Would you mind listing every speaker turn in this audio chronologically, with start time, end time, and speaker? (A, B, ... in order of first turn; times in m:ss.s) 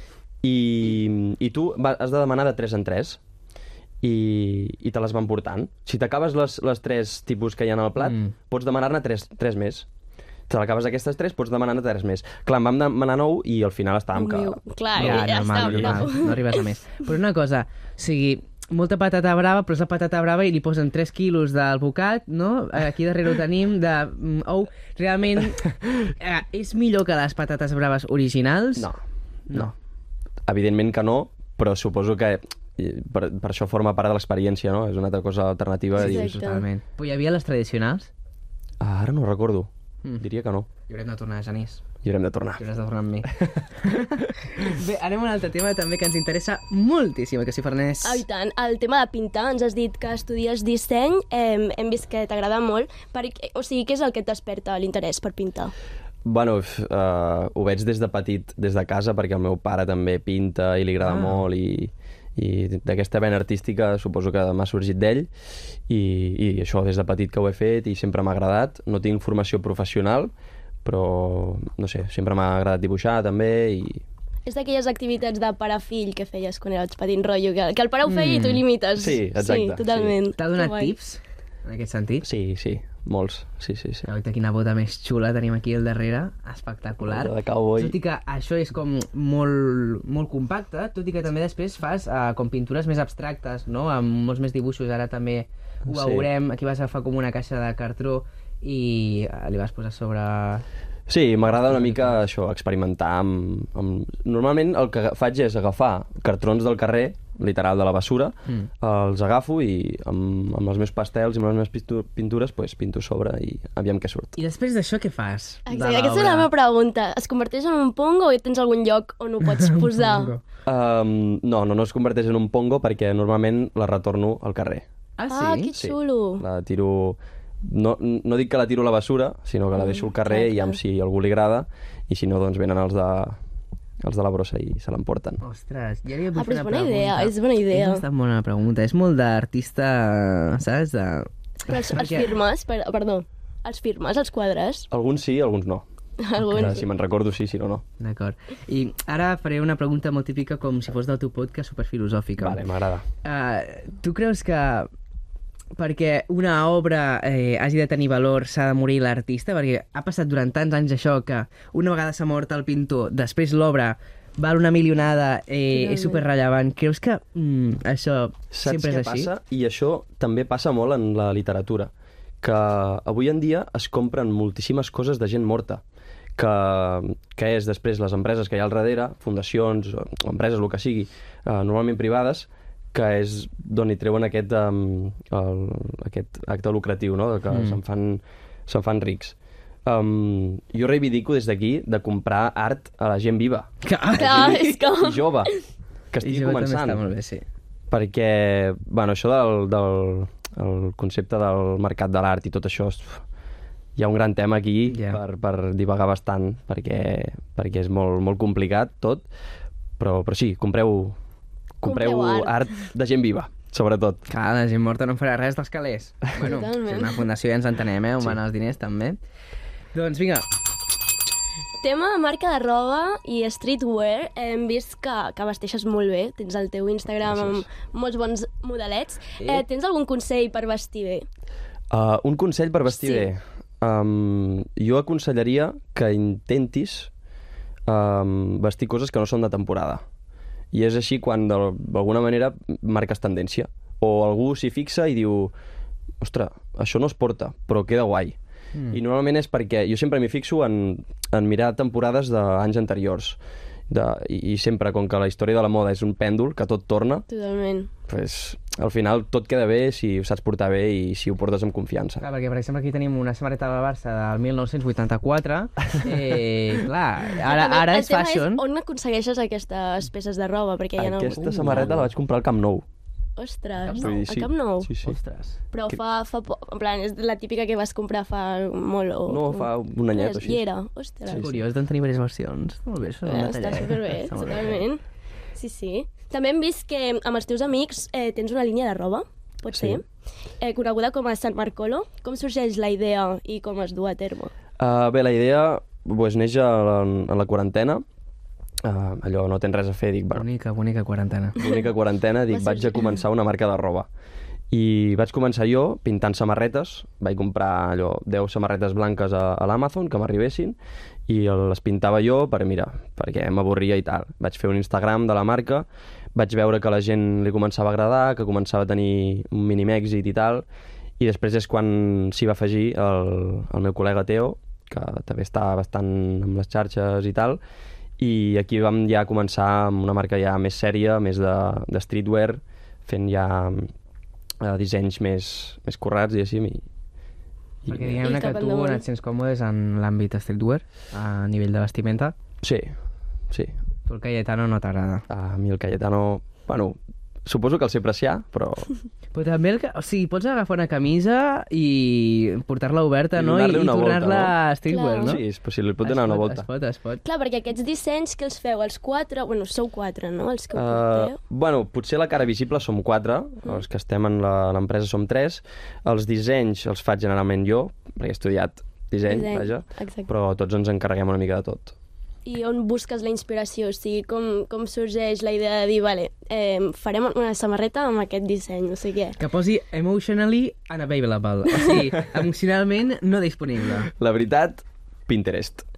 0:00.4-0:03.2 A
0:04.0-0:09.9 A
0:08.0-0:08.3 B
0:10.5-0:16.1 A
0:14.2-0:16.6 C
0:15.0-0:28.9 B
0:30.5-0:36.3 A
0:36.0-0:38.1 B
0:36.0-0:36.7 C
0:38.8-0:40.7 A
0:40.9-0:41.8 B
0:42.0-0:42.6 A
0:42.6-0:48.2 B
0:43.4-0:44.3 A
0:48.0-0:55.7 C
0:56.2-1:05.3 A
1:01.0-1:01.4 B
1:05.9-1:10.3 A
1:10.8-1:14.0 A
1:14.5-1:20.9 C
1:18.1-1:18.6 B
1:19.0-1:20.2 A
1:20.4-1:22.3 B
1:22.2-1:24.1 A
1:24.1-1:40.6 B
1:27.0-1:28.0 A
1:35.9-1:36.3 A
1:41.1-1:54.4 A
1:41.6-1:42.2 B
1:54.4-1:56.5 B
1:55.7-2:00.3 C
1:59.6-2:00.4 B
2:00.7-2:04.9 A
2:05.2-2:05.7 B
2:05.3-2:06.4 C
2:05.7-2:13.4 A
2:09.8-2:10.8 C
2:14.0-2:15.4 A
2:15.4-2:22.3 B
2:16.4-2:18.0 C
2:21.6-2:24.9 C
2:24.9-2:25.8 A
2:26.2-2:26.8 C
2:26.5-2:27.8 A
2:28.0-2:32.6 B
2:32.4-2:33.1 A
2:33.2-2:34.9 B
2:35.8-2:49.3 B
2:45.7-2:46.2 C
2:48.5-2:55.8 A
2:56.4-3:09.4 A
3:07.5-3:07.8 B
3:09.9-3:15.5 A
3:13.8-3:14.7 B
3:14.2-3:15.6 C
3:16.1-3:17.0 A
3:16.2-3:17.4 B
3:17.9-3:23.2 A
3:24.0-3:29.3 A
3:24.9-3:25.2 B
3:30.0-3:31.2 A
3:31.8-3:34.2 A
3:31.8-3:32.7 C
3:34.3-3:39.2 B
3:36.4-3:37.3 C
3:39.9-3:40.5 B
3:41.8-3:51.3 C
3:47.3-3:47.7 A
3:49.4-3:49.6 B
3:51.9-3:57.1 A
3:52.9-3:53.3 C
3:57.9-4:00.0 A
4:00.7-4:05.5 A
4:06.2-4:08.4 A
4:08.9-4:17.3 A
4:17.3-4:17.9 C
4:18.1-4:22.2 A
4:22.2-4:28.6 B
4:27.4-4:31.8 C
4:31.0-4:32.8 A
4:31.4-4:32.1 B
4:33.4-4:34.9 C
4:33.8-4:34.1 B
4:34.0-4:35.2 A
4:35.0-4:35.6 B
4:35.7-4:41.5 C
4:39.3-4:40.6 A
4:41.3-4:41.6 A
4:41.3-4:44.8 B
4:43.3-4:45.0 C
4:45.6-4:50.0 C
4:49.7-4:50.0 A
4:50.6-4:54.5 C
4:54.8-4:58.0 A
4:58.8-5:00.5 A
5:00.3-5:01.6 B
5:01.6-5:04.1 A
5:02.5-5:03.1 C
5:04.7-5:20.7 A
5:21.2-5:27.6 A
5:28.2-5:33.9 A
5:34.6-5:36.8 A
5:37.8-5:38.2 A
5:37.9-5:42.3 B
5:38.2-5:39.0 C
5:42.6-5:42.9 A
5:44.1-5:45.2 B
5:45.3-5:48.9 A
5:49.3-5:55.4 B
5:53.4-5:54.6 A
5:54.9-5:55.4 C
5:55.2-5:56.7 A
5:56.0-5:57.2 B
5:57.2-6:01.4 C
6:00.7-6:12.0 A
6:09.3-6:10.3 C
6:12.5-6:19.4 C
6:19.4-6:24.1 B
6:24.1-6:25.8 A